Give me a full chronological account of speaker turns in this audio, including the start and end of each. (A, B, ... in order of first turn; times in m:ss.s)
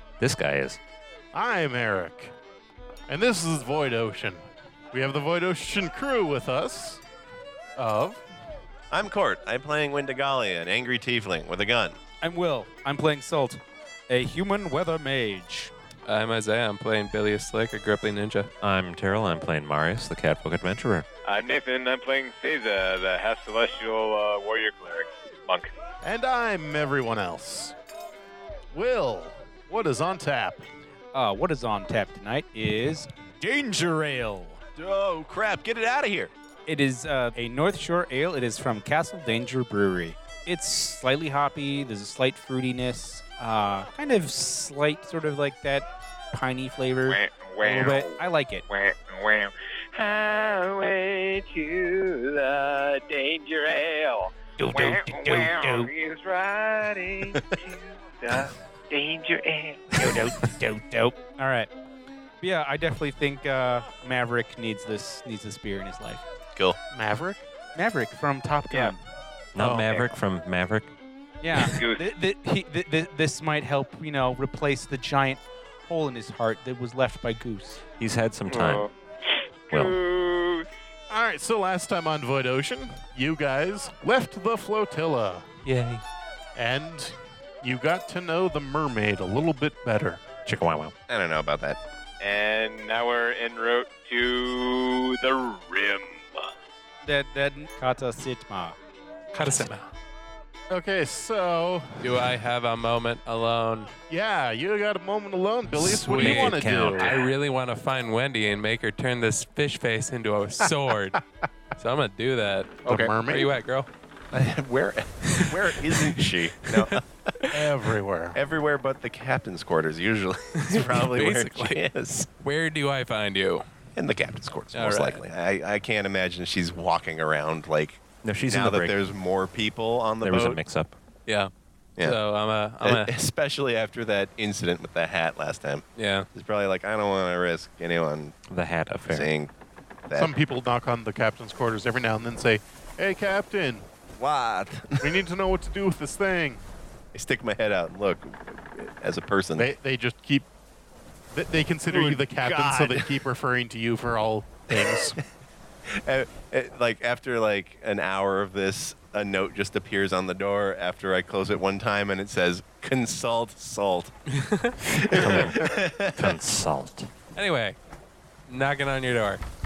0:00.2-0:00.8 A
0:01.3-0:02.3 B
0:03.1-0:04.4 B
0:04.9-0:07.0 B
0:07.8-0:08.2 B
0:08.9-0:12.0 C
0:12.2-0:15.7 D
0:16.0-0:18.5 E
0:18.6-0:21.1 A
0:21.2-0:25.7 F
0:26.0-0:27.7 B
0:28.7-0:30.6 B
0:31.1-0:34.6 D
0:34.8-0:36.3 C
0:36.7-0:48.6 D
0:47.1-1:00.0 F
0:54.6-0:55.9 D
0:59.9-1:01.7 D
1:02.4-1:06.2 D
1:06.9-1:07.4 B
1:07.7-1:09.0 D
1:09.5-1:10.9 A
1:09.6-1:10.0 C
1:11.4-1:17.8 D
1:11.7-1:12.1 F
1:18.0-1:18.8 A
1:18.5-1:20.7 F
1:19.7-1:20.0 A
1:21.1-1:25.5 B
1:25.6-1:26.0 E
1:26.5-1:30.2 B
1:30.4-1:30.9 A
1:31.1-1:31.8 C
1:32.2-1:36.4 F
1:37.0-1:38.8 D
1:39.3-1:39.9 E
1:40.7-1:42.2 B
1:42.0-1:43.9 E
1:44.1-1:47.2 B
1:45.8-1:51.2 E
1:45.8-1:47.2 A
1:51.8-1:53.9 E
1:52.8-1:53.5 B
1:54.3-1:57.5 C
1:56.0-1:56.2 E
1:57.5-1:58.4 B
1:58.3-2:02.3 C
2:00.6-2:01.8 E
2:02.4-2:03.6 E
2:04.0-2:10.6 C
2:04.7-2:05.2 E
2:08.2-2:09.0 A
2:10.2-2:10.9 A
2:11.3-2:13.1 E
2:12.8-2:18.4 C
2:16.0-2:16.3 E
2:18.5-2:19.3 A
2:19.1-2:19.5 C
2:20.1-2:20.3 C
2:20.2-2:23.9 B
2:24.2-2:25.2 C
2:25.0-2:26.6 B
2:27.1-2:29.7 C
2:29.6-2:30.5 B
2:31.3-2:35.2 B
2:31.9-2:33.2 C
2:34.7-2:35.2 C
2:35.9-2:44.1 C
2:44.4-2:45.4 E
2:44.9-2:46.4 C
2:45.1-2:47.1 A
2:47.4-2:47.8 E
2:48.5-2:49.4 E